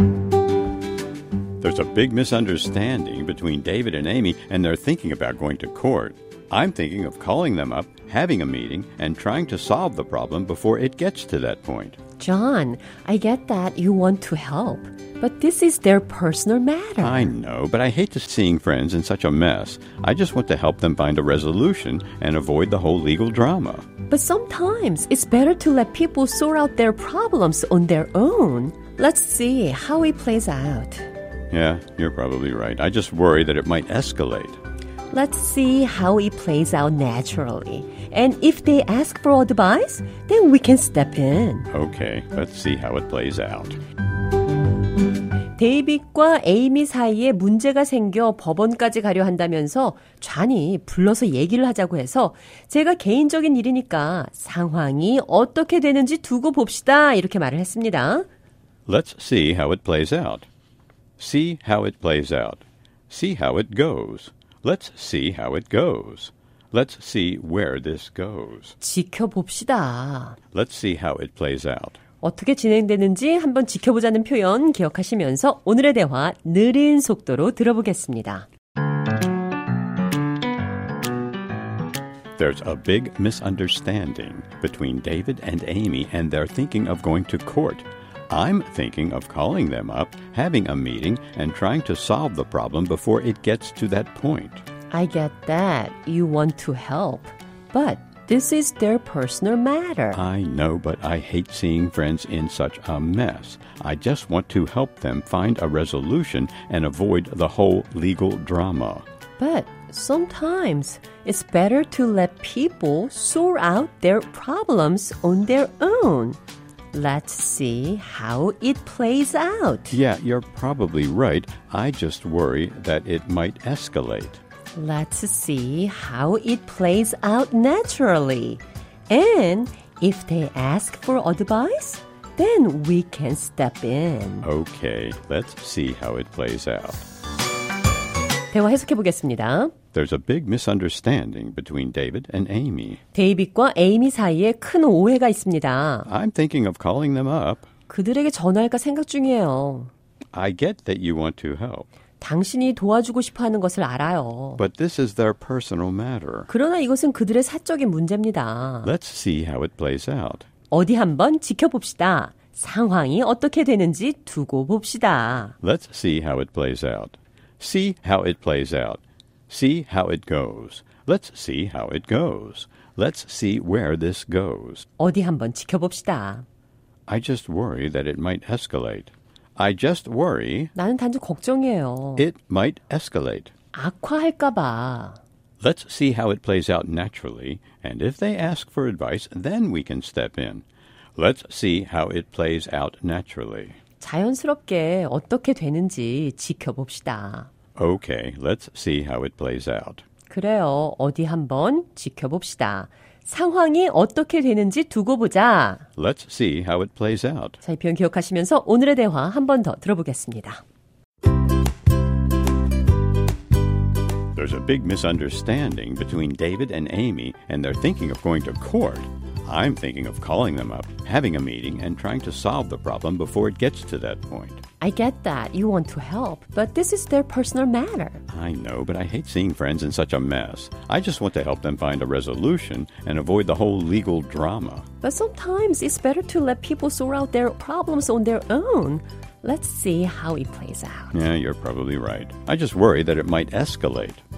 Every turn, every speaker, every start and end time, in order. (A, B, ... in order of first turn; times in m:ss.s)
0:01.6-0:12.0 A
0:12.2-0:17.3 B
0:17.0-0:23.9 A
0:24.1-0:31.1 B
0:31.5-0:34.6 A
0:35.1-0:41.7 B
0:41.7-0:43.8 A
0:45.6-0:58.3 B
0:58.9-1:00.5 A
1:01.2-1:08.8 A
1:08.8-1:10.4 B
1:10.5-1:12.0 A
1:12.2-1:18.5 B
1:22.4-1:34.6 A
1:34.9-1:40.2 B
1:40.1-1:49.0 A
1:49.4-1:56.4 B
1:56.9-2:00.0 B
1:59.9-2:04.4 A
2:04.8-2:14.5 B
2:14.4-2:17.0 A
2:18.5-2:19.7 B
2:19.9-2:23.0 A
2:23.1-2:26.1 B
2:26.1-2:27.7 A
2:27.9-2:29.9 B
2:30.3-2:31.9 A
2:32.2-2:34.6 B
2:34.6-2:36.5 A
2:36.5-2:38.9 B
2:38.8-2:40.5 A
2:40.7-2:45.6 B
2:45.6-2:54.9 A
2:55.0-2:56.5 B
2:57.1-3:00.7 A
3:00.8-3:02.3 B
3:02.2-3:03.5 A
3:03.7-3:05.2 B
3:05.6-3:10.6 A
3:11.2-3:13.8 A
3:14.0-3:17.5 B
3:17.8-3:20.0 A
3:20.3-3:25.9 B
3:26.0-3:27.6 A
3:27.6-3:30.6 B
3:34.4-3:44.6 A
3:44.8-3:48.2 B
3:48.3-3:54.9 A
3:55.0-4:01.1 B
4:01.1-4:04.2 A